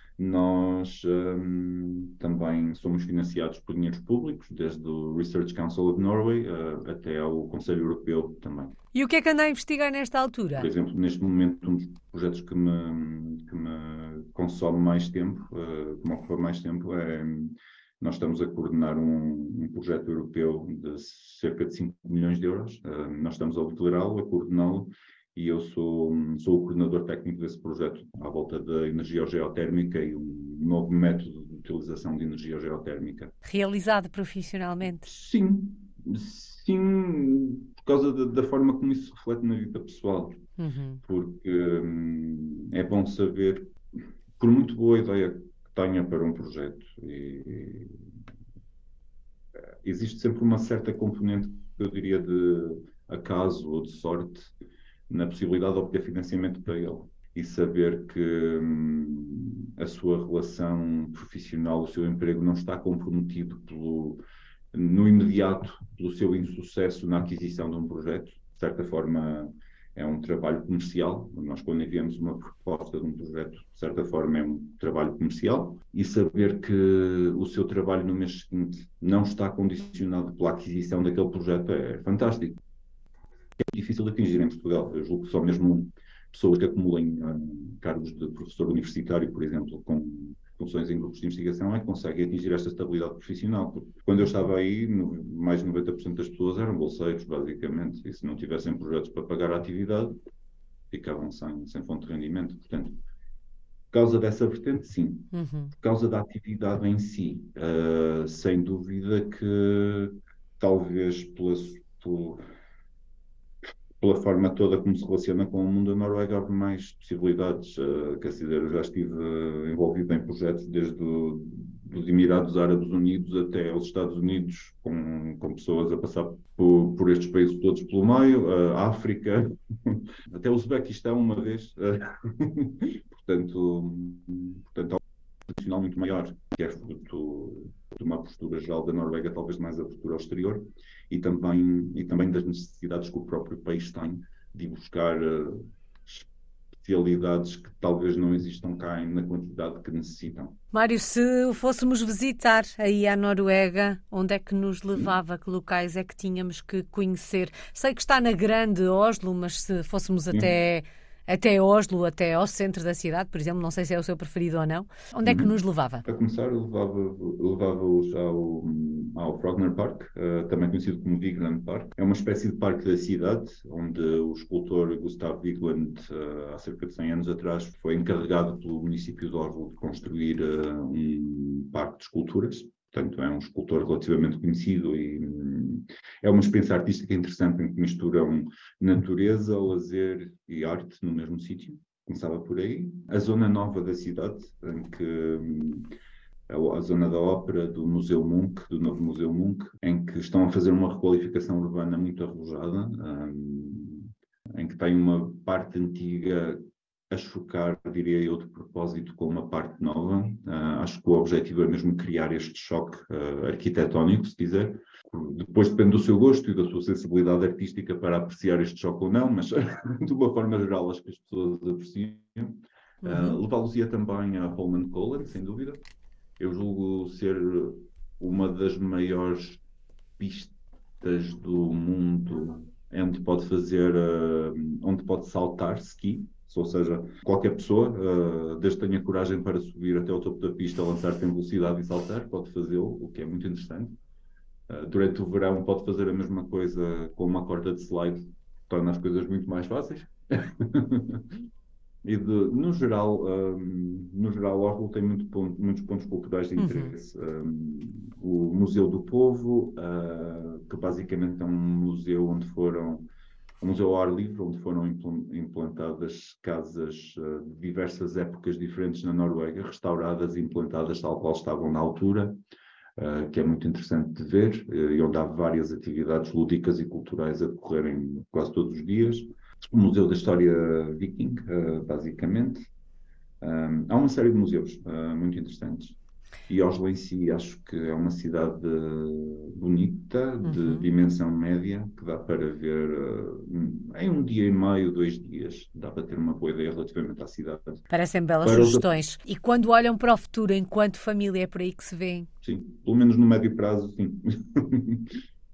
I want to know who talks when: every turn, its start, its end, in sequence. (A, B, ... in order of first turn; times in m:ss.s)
0:00.2-0:08.8 A
0:08.9-0:10.7 B
0:10.6-0:33.3 A
0:33.4-0:35.1 B
0:35.0-0:40.4 A
0:40.6-0:41.0 B
0:41.0-0:43.8 A
0:44.4-0:47.9 A
0:49.8-0:54.5 A
0:55.1-1:04.2 A
1:04.7-1:22.6 A
1:23.6-1:40.2 A
1:40.9-1:43.0 A
1:43.9-1:52.4 A
1:45.3-1:45.7 B
1:54.0-2:26.3 A
2:26.8-2:30.6 A
2:30.7-2:46.0 B
2:45.2-2:45.5 A
2:46.0-3:15.9 A
3:16.5-3:45.8 A
3:43.0-3:43.4 B
3:46.4-3:49.6 A
3:50.2-4:04.0 A
4:04.7-4:11.3 A
4:12.0-4:23.1 A
4:16.6-4:16.9 B
4:23.6-4:32.4 A
4:33.0-4:42.7 A
4:43.4-4:46.0 A
4:46.5-4:57.8 A
4:50.4-4:50.9 B
4:57.9-5:02.3 B
4:58.4-4:58.9 A
5:02.4-5:05.2 A